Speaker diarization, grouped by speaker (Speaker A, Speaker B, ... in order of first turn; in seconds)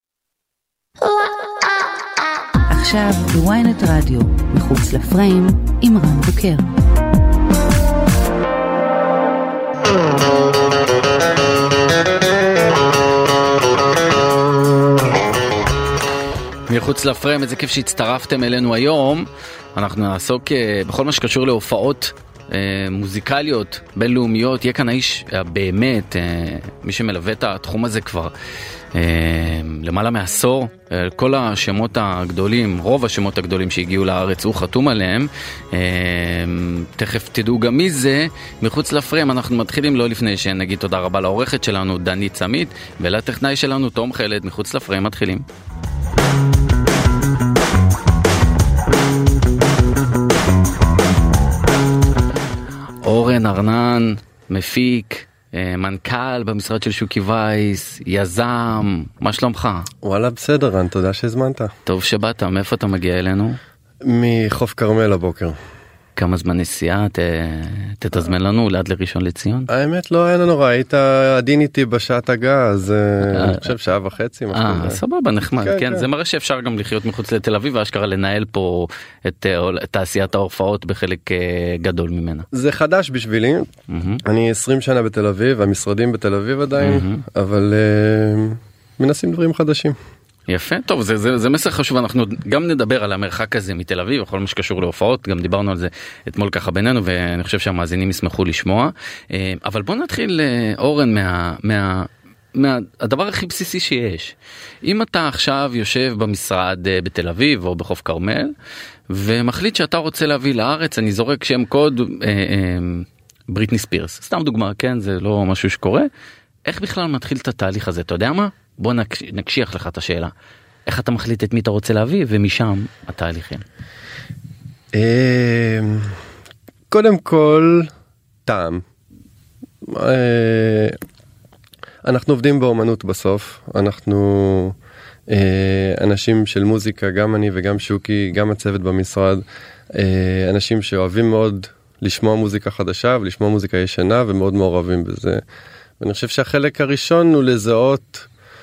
Speaker A: 2.7-6.7
Speaker B: 16.7-28.3, 28.9-45.5, 53.0-59.9, 61.9-63.6, 66.2-69.7, 73.2-73.7, 74.5-82.5, 83.9-84.2, 86.8-87.2, 90.5-108.5, 109.1-116.1, 116.7-120.3, 120.9-123.7
Speaker C: 60.0-61.7, 64.0-65.6, 69.7-75.0, 75.6-76.1, 82.5-83.7, 84.2-90.0, 124.9-126.2, 126.9-127.9, 128.5-128.8, 129.8-131.0, 132.0-134.8, 135.3-145.4, 146.0-148.3